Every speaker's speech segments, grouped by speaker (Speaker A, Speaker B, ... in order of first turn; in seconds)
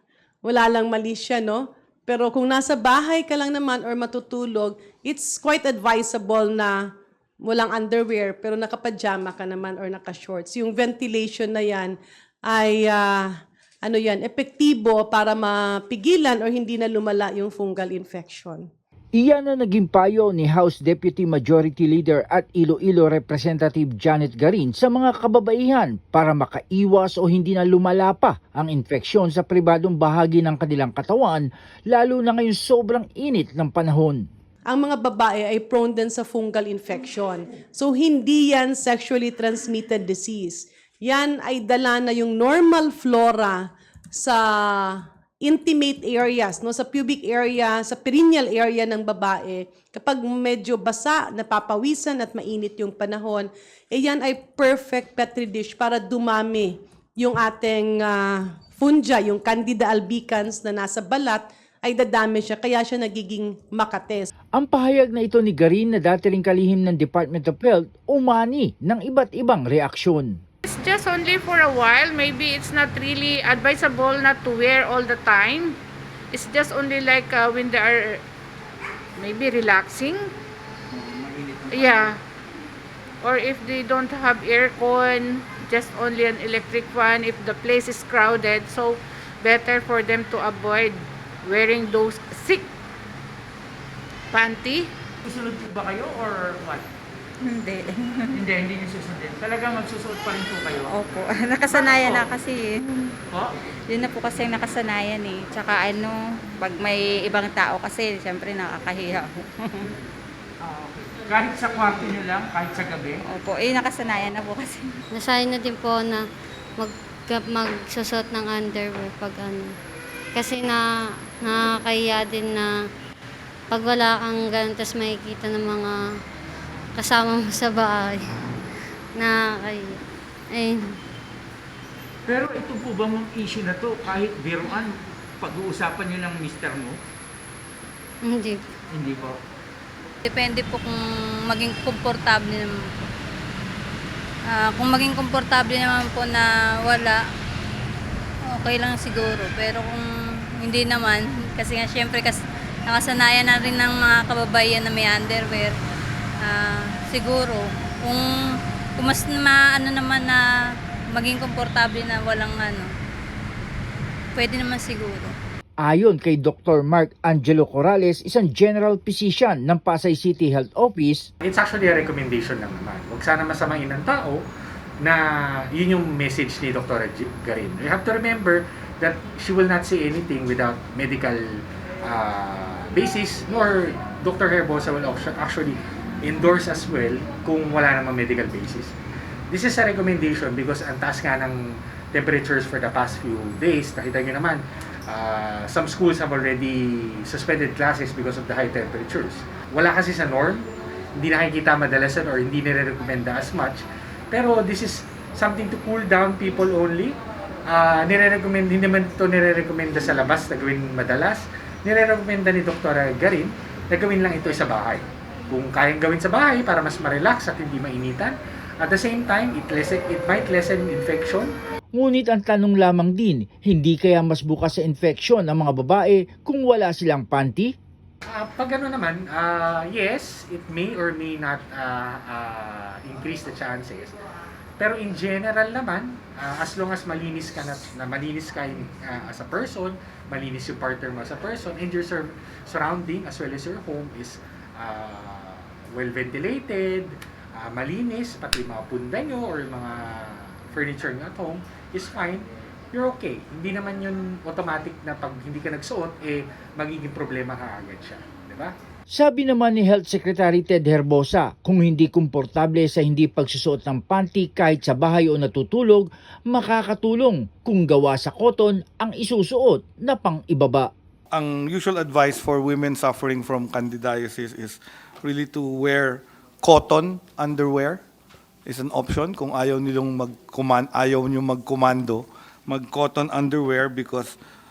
Speaker A: 0.4-6.8, 7.4-18.7, 34.7-64.3
Speaker B: 19.2-34.2, 64.6-70.4, 165.8-171.3, 222.0-227.7, 259.1-270.9
Speaker C: 70.7-75.8, 76.3-78.2, 79.2-80.3, 81.7-82.2, 83.2-92.7, 94.3-94.9
Speaker D: 81.0-82.1, 95.2-96.8, 98.4-100.9, 101.7-102.3, 110.7-113.2, 132.3-137.0, 138.9-139.4
Speaker E: 97.5-98.4, 100.9-103.1, 103.9-109.9, 113.2-114.9
Speaker F: 115.2-116.2, 116.8-119.7, 120.4-120.8, 121.5-122.7, 123.7-125.9, 127.0-128.2, 129.2-130.0, 130.5-131.0, 138.3-138.6
Speaker G: 140.2-141.0, 141.5-142.7, 144.5-147.2, 148.5-150.0, 150.6-155.7, 156.4-160.4, 161.1-162.9, 164.3-165.4
Speaker H: 171.4-174.4, 175.7-181.5, 182.0-188.9, 189.5-200.7, 201.2-207.2, 207.7-221.5, 228.2-234.1, 234.8-258.7
Speaker I: 271.3-278.0, 278.7-284.4